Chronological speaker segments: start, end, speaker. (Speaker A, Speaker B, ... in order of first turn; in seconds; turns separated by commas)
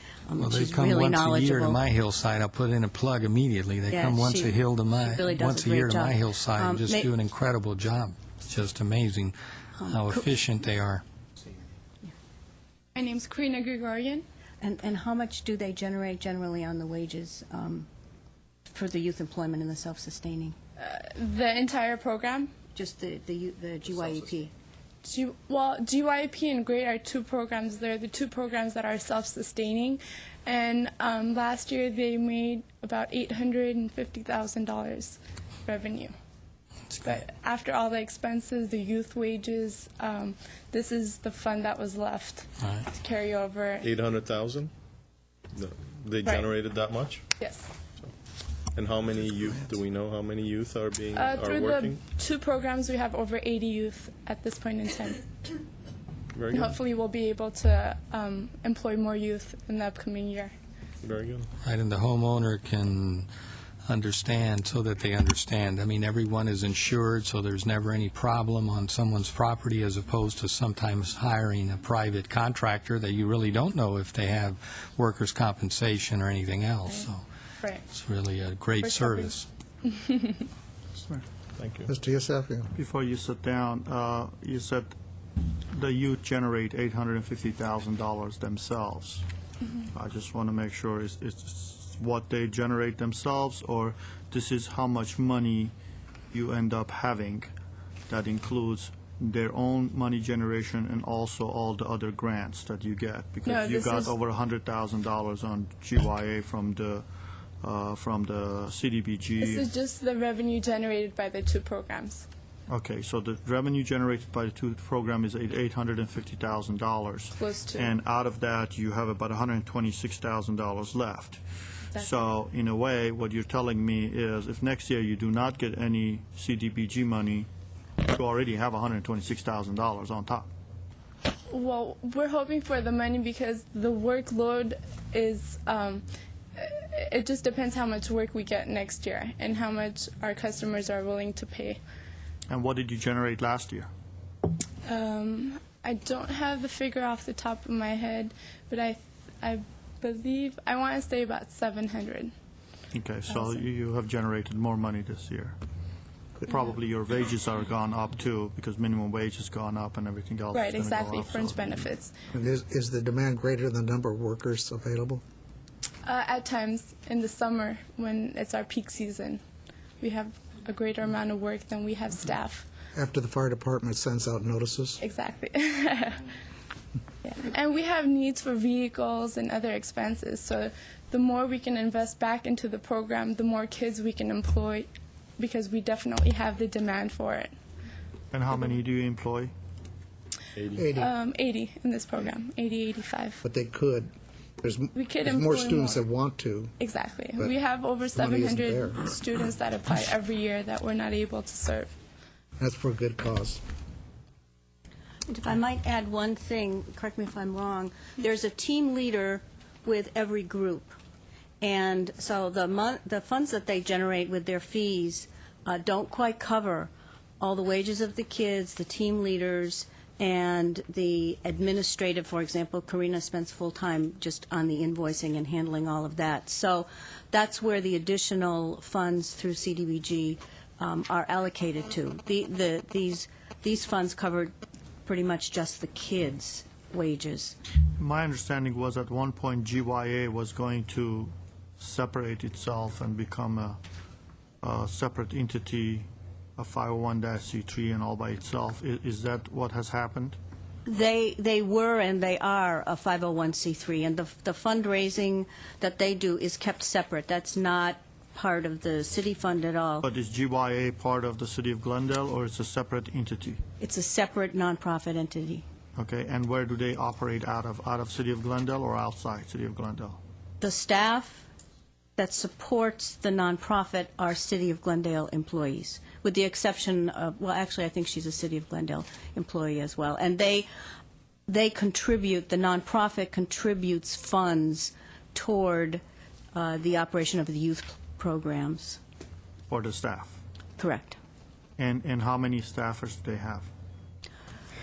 Speaker A: 0.3-1.8, Speaker B: 0.4-11.0, Speaker A: 3.9-7.1, Speaker A: 9.8-10.2, Speaker C: 12.9-14.2, Speaker A: 14.6-17.9, Speaker A: 18.7-20.6, Speaker C: 20.8-22.5, Speaker A: 22.7-24.5, Speaker C: 25.0-36.1, Speaker C: 37.0-43.9, Speaker D: 43.8-44.7, Speaker D: 45.5-47.3, Speaker C: 47.4-47.7, Speaker D: 48.7-52.0, Speaker C: 51.1-55.3, Speaker D: 56.3-56.8, Speaker C: 56.5-60.5, Speaker D: 61.0-61.5, Speaker B: 61.6-63.3, Speaker B: 63.9-77.2, Speaker B: 77.9-79.5, Speaker C: 78.8-79.3, Speaker C: 79.9-80.4, Speaker D: 81.6-81.9, Speaker E: 81.9-82.7, Speaker F: 82.8-85.0, Speaker F: 85.7-89.2, Speaker F: 89.9-95.7, Speaker F: 96.3-97.5, Speaker F: 98.1-107.0, Speaker C: 103.5-104.1, Speaker F: 107.6-109.7, Speaker C: 109.4-112.3, Speaker F: 112.7-121.4, Speaker C: 117.4-118.0, Speaker C: 122.0-122.2, Speaker F: 122.0-127.5, Speaker F: 128.0-130.5, Speaker C: 131.5-136.1, Speaker C: 136.6-141.8, Speaker F: 142.5-143.9, Speaker C: 144.9-152.3, Speaker F: 152.9-155.6, Speaker F: 156.5-161.8, Speaker C: 160.5-162.1, Speaker E: 162.3-165.2, Speaker C: 166.0-169.4, Speaker C: 170.0-172.7, Speaker E: 172.9-175.0, Speaker C: 175.0-176.3, Speaker C: 177.2-187.5, Speaker F: 188.3-189.5, Speaker E: 190.7-191.1, Speaker C: 191.0-193.4, Speaker E: 193.4-196.8, Speaker C: 194.9-196.0, Speaker C: 196.8-201.9, Speaker E: 198.2-199.0, Speaker E: 202.6-203.6, Speaker A: 205.3-211.0, Speaker A: 211.6-234.5, Speaker A: 235.1-237.6, Speaker F: 238.0-243.8, Speaker F: 244.6-250.4, Speaker A: 250.9-260.1, Speaker F: 260.0-263.6, Speaker A: 263.8-265.6, Speaker F: 266.0-270.2, Speaker A: 270.6-271.4, Speaker A: 272.2-280.7, Speaker A: 281.5-286.0, Speaker A: 286.5-289.0, Speaker F: 289.7-290.4, Speaker A: 290.8-291.2, Speaker F: 291.8-293.7